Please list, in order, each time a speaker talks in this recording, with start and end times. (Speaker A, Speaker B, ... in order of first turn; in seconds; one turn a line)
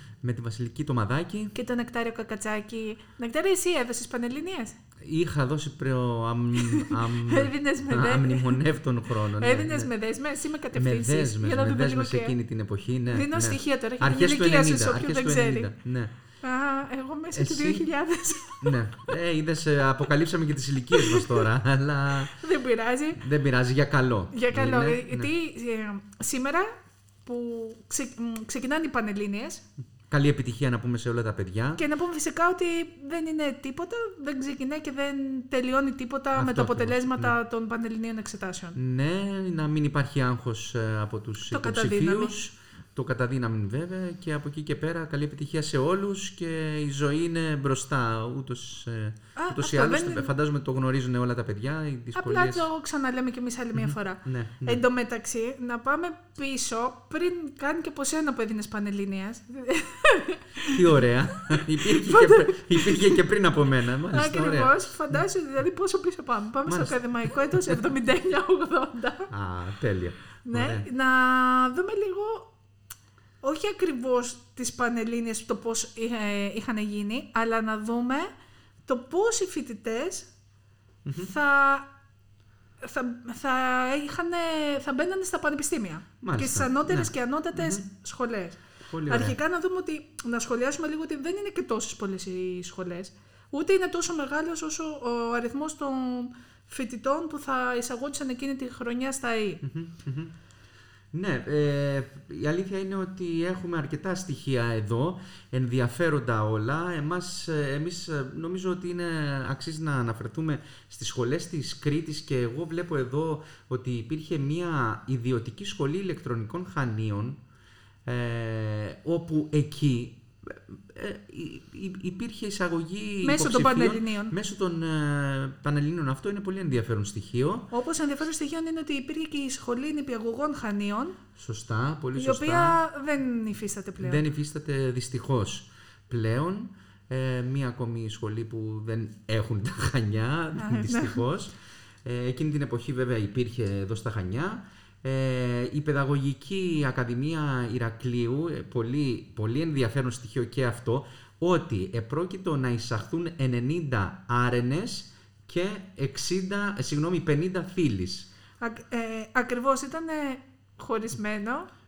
Speaker A: 0.2-1.5
Speaker B: 1.5-4.8
Speaker A: 5.0-9.9
Speaker B: 6.6-8.6
Speaker B: 9.4-12.3
Speaker A: 10.7-16.1
Speaker B: 13.1-15.7
Speaker B: 16.4-18.8
Speaker A: 17.3-17.9
Speaker A: 18.6-22.4
Speaker B: 21.0-21.3
Speaker B: 22.3-23.2
Speaker A: 23.2-25.3
Speaker B: 24.3-26.7
Speaker B: 27.2-29.6
Speaker A: 30.1-31.8
Speaker B: 31.8-38.8
Speaker A: 36.4-37.4
Speaker A: 38.8-52.7
Speaker B: 41.5-42.3
Speaker B: 49.4-50.3
Speaker B: 52.1-61.0
Speaker A: 53.8-54.8
Speaker A: 60.7-65.2
Speaker B: 61.6-63.2
Speaker B: 64.1-69.3
Speaker A: 66.7-67.8
Speaker A: 69.3-70.9
Speaker B: 70.5-72.5
Speaker B: 73.4-78.3
Speaker B: 78.9-80.3
Speaker A: 81.0-81.3
Speaker B: 81.2-81.9
Speaker B: 82.8-99.6
Speaker A: 86.2-87.8
Speaker A: 88.9-89.4
Speaker A: 99.6-100.3
Speaker A: 101.1-117.4
Speaker A: 118.1-127.7
Speaker B: 123.2-124.3
Speaker B: 127.7-131.2
Speaker A: 131.4-132.8
Speaker B: 132.2-134.2
Speaker A: 134.0-141.5
Speaker B: 140.6-141.2
Speaker A: 142.1-158.3
Speaker B: 158.6-161.7